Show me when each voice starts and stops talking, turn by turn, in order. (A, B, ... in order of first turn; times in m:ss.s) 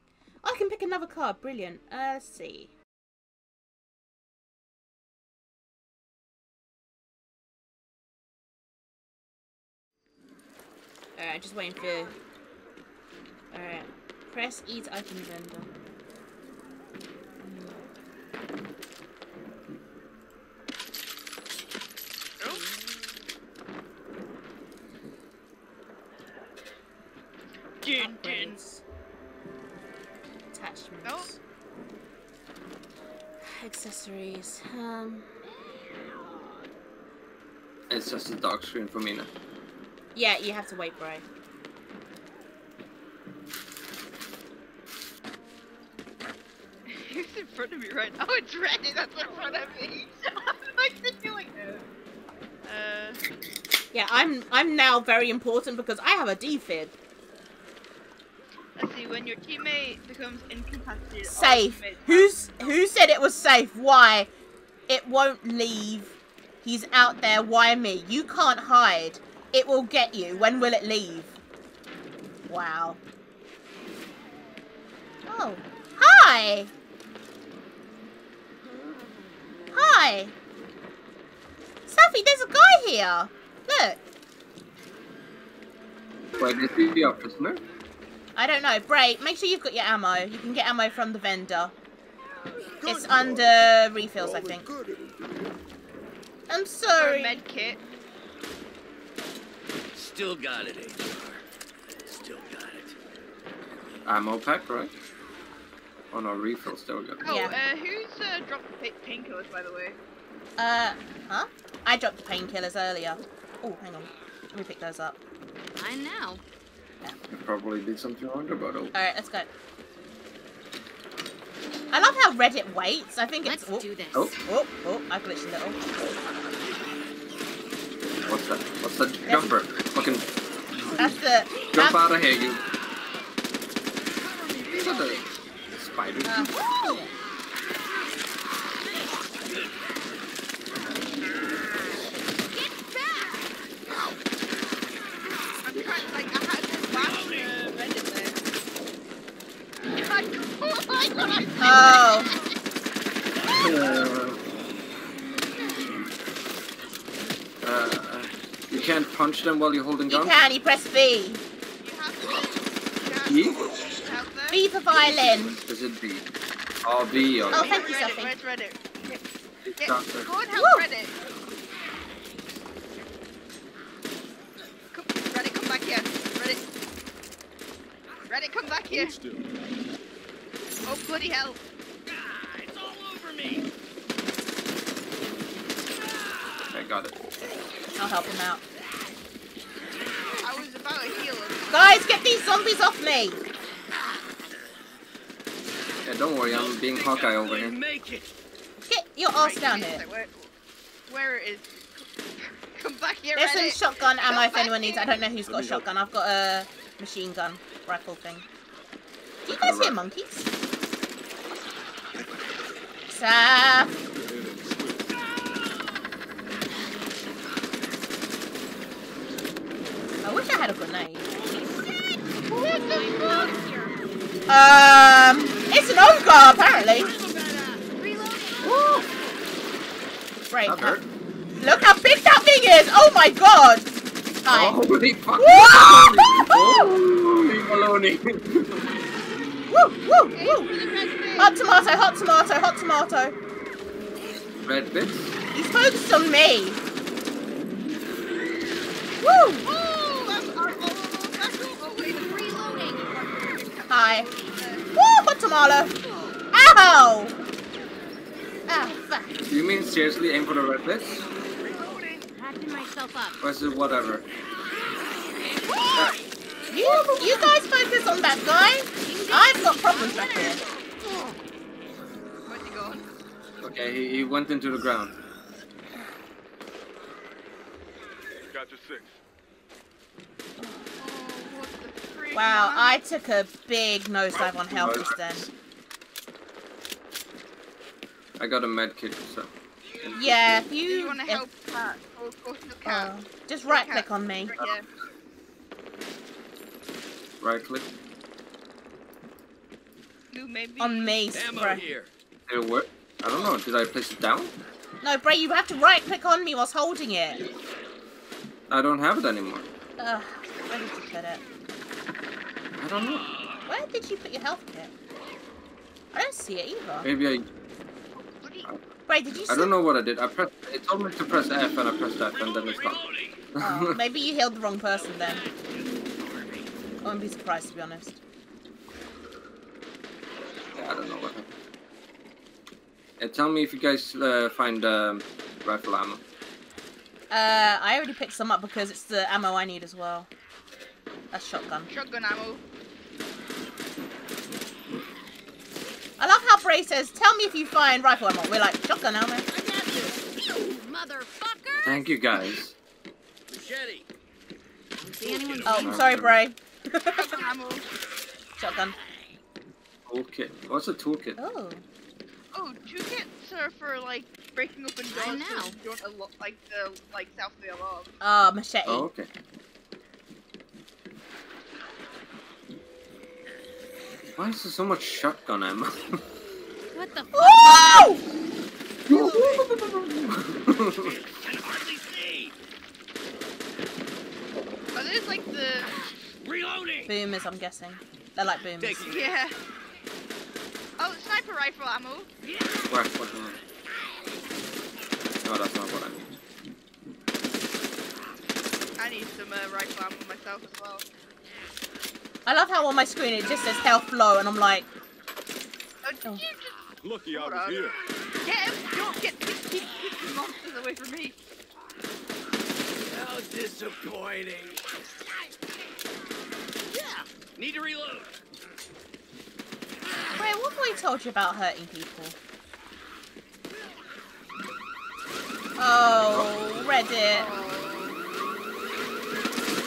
0:00.4-0:02.7 A
0:11.2-0:12.2 A
0:13.5-0:15.7 A
0:17.4-0:17.8 A
0:27.8-0:28.5 B
0:27.9-0:28.8 A
0:30.5-0:31.4 A
0:31.0-0:31.3 C
0:33.4-0:35.3 A
0:37.9-0:39.3 D
0:40.1-0:41.2 A
0:46.9-0:51.9 C
0:52.6-0:53.2 C
0:53.9-0:57.0 A
0:58.8-1:02.8 C
1:01.2-1:04.3 A
1:04.9-1:11.4 A
1:12.5-1:13.0 A
1:15.3-1:16.7 A
1:19.7-1:20.3 A
1:21.9-1:24.0 A
1:26.4-1:27.6 D
1:28.4-1:31.7 A
1:32.8-1:34.7 A
1:32.9-1:33.4 E
1:34.2-1:35.1 E
1:36.5-1:37.4 A
1:37.0-1:37.8 C
1:39.9-1:41.4 B
1:42.0-1:42.9 B
1:44.0-1:44.9 D
1:46.1-1:47.2 D
1:47.2-1:50.0 C
1:47.3-1:47.5 A
1:50.6-1:55.2 A
1:55.8-1:56.4 F
1:57.3-1:58.9 D
1:58.9-1:59.5 A
2:01.9-2:03.9 A
2:03.4-2:04.4 F
2:04.4-2:05.8 A
2:08.2-2:10.2 D
2:09.2-2:09.5 A
2:11.0-2:12.0 A
2:11.7-2:12.6 D
2:14.2-2:15.2 B
2:14.8-2:16.6 D
2:16.2-2:17.1 A
2:22.5-2:23.5 F
2:25.6-2:28.4 C
2:26.9-2:27.5 B
2:29.9-2:32.3 C
2:31.6-2:32.3 A
2:33.5-2:34.4 D
2:37.6-2:40.4 D
2:40.1-2:41.4 A
2:41.8-2:44.6 C
2:43.2-2:43.7 D
2:44.5-2:45.6 A
2:44.9-2:46.2 D
2:46.8-2:47.8 D
2:47.5-2:48.3 A
2:47.5-2:49.2 C
2:47.7-2:48.0 B
2:49.6-2:50.3 D
2:49.8-2:51.1 C
2:50.5-2:50.8 A
2:54.9-2:56.6 C
2:58.2-2:59.2 C
2:58.9-2:59.4 E
3:00.8-3:01.6 C
3:02.2-3:03.6 B
3:06.7-3:07.1 D
3:08.0-3:08.6 A
3:10.4-3:12.0 C
3:11.7-3:13.4 A
3:16.0-3:17.8 D
3:16.5-3:18.3 B
3:18.8-3:20.0 A
3:19.4-3:20.5 C
3:21.1-3:25.2 C
3:23.4-3:28.4 A
3:25.5-3:25.9 E
3:29.4-3:30.5 A
3:29.5-3:30.0 D
3:33.1-3:33.9 A
3:34.1-3:35.1 E
3:40.2-3:41.3 A
3:41.4-3:44.0 F
3:42.5-3:43.5 C
3:44.5-3:47.1 A
3:47.0-3:47.8 B
3:47.9-3:49.1 F
3:48.6-3:49.0 D
3:50.5-3:51.0 A
3:50.6-3:51.0 D
3:51.6-3:53.9 A
3:54.4-3:54.8 A
3:54.5-3:58.9 D
3:55.4-3:56.9 A
3:59.7-4:00.7 A
4:00.3-4:01.5 C
4:01.4-4:03.4 A
4:04.6-4:05.3 D
4:05.5-4:06.8 A
4:09.2-4:09.6 A
4:09.6-4:14.8 C
4:12.1-4:13.1 F
4:13.9-4:14.3 A
4:14.9-4:15.9 A
4:16.5-4:17.3 A
4:18.7-4:19.3 A
4:19.5-4:21.2 D
4:21.7-4:22.3 C
4:22.3-4:23.4 F
4:23.4-4:24.2 D
4:25.7-4:26.2 C
4:26.7-4:30.6 A
4:29.0-4:30.6 F
4:32.5-4:33.0 C
4:33.6-4:35.1 D
4:38.5-4:39.1 E
4:41.0-4:43.0 C
4:42.3-4:45.5 A
4:44.4-4:44.9 E
4:44.8-4:45.1 D
4:48.4-4:50.6 D
4:50.1-4:51.4 A
4:50.8-4:53.1 C
4:52.8-4:54.6 A
4:53.6-4:54.8 C
4:57.4-4:57.9 D
5:00.3-5:01.2 C
5:00.8-5:01.9 A
5:01.3-5:02.1 B
5:02.5-5:04.5 D
5:05.0-5:07.4 A
5:08.7-5:09.7 D
5:10.0-5:11.4 A
5:12.8-5:13.3 D
5:13.6-5:14.9 A
5:16.1-5:17.1 A
5:17.0-5:17.4 D
5:18.4-5:18.7 C
5:19.1-5:19.7 A
5:19.4-5:23.0 D
5:22.3-5:23.0 E
5:23.0-5:23.4 B
5:23.5-5:24.0 D
5:23.6-5:25.4 A
5:24.9-5:26.6 B
5:27.0-5:28.2 A
5:30.7-5:31.5 D
5:33.2-5:36.2 D
5:37.3-5:40.3 A
5:41.3-5:41.9 A
5:41.9-5:42.6 C
5:46.2-5:49.4 A
5:49.5-5:50.2 B
5:50.6-5:52.0 F
5:51.8-5:52.7 D
5:53.5-5:54.0 B
5:55.0-5:56.1 F
5:55.2-5:55.9 B
5:55.6-5:57.3 A
5:55.7-5:56.4 D
5:57.1-5:57.8 C
5:58.6-5:59.0 A
6:00.1-6:01.4 D
6:01.4-6:01.8 A
6:02.5-6:08.1 C
6:05.1-6:05.8 F
6:08.2-6:09.1 A
6:08.8-6:09.3 D
6:14.4-6:16.2 D
6:16.9-6:18.2 F
6:17.3-6:18.2 A
6:19.1-6:21.2 D
6:19.1-6:19.7 B
6:21.0-6:22.5 B
6:24.9-6:25.9 C
6:26.4-6:27.1 B
6:27.1-6:29.0 A
6:28.8-6:29.4 B
6:29.1-6:29.5 C
6:31.0-6:32.3 C
6:32.5-6:32.8 F
6:32.9-6:33.6 D
6:35.4-6:36.4 D
6:39.0-6:41.0 C
6:42.4-6:44.9 A
6:46.0-6:47.9 C
6:47.0-6:48.0 E
6:48.4-6:51.4 C
6:53.1-6:54.9 B
6:56.9-6:58.3 B
7:00.3-7:02.4 A
7:05.8-7:07.5 A
7:07.3-7:08.2 C